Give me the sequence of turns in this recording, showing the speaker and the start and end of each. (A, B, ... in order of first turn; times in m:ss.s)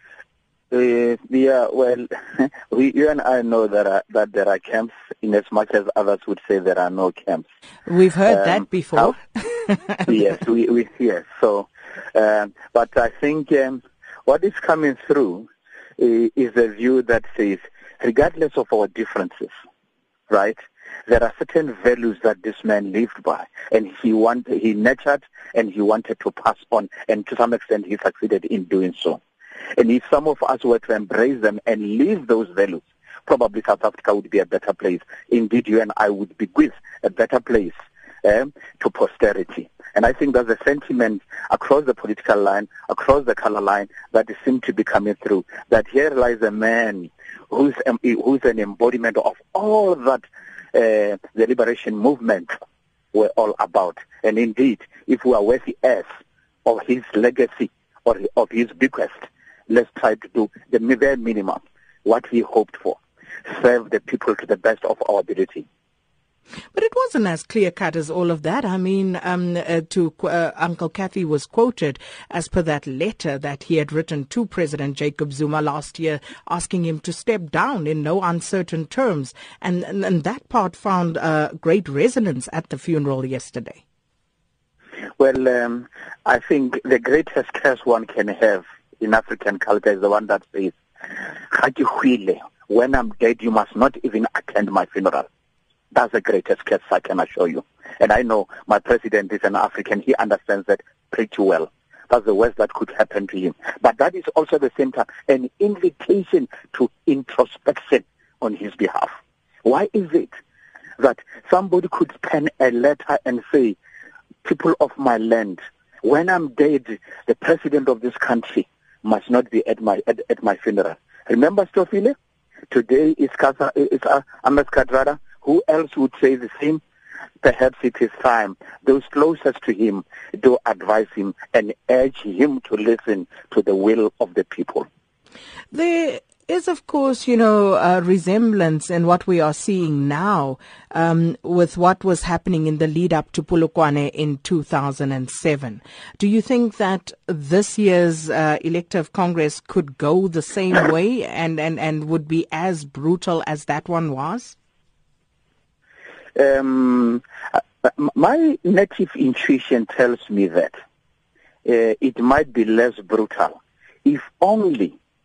0:00.7-0:07.4 A
0:07.8-0:10.2 B
0:08.3-0:09.1 A
0:10.0-0:19.5 A
0:20.3-0:29.2 A
0:29.8-0:52.5 A
0:53.1-0:56.0 A
0:56.6-1:05.6 A
1:06.7-1:23.8 B
1:25.2-1:30.8 A
1:31.5-1:35.2 A
1:35.9-1:49.1 A
1:49.6-1:50.4 A
1:51.0-1:53.8 A
1:54.4-2:02.1 A
2:02.7-2:06.8 A
2:07.4-2:14.8 A
2:15.7-2:34.6 B
2:36.4-2:37.2 A
2:37.8-2:40.8 A
2:41.6-2:45.0 A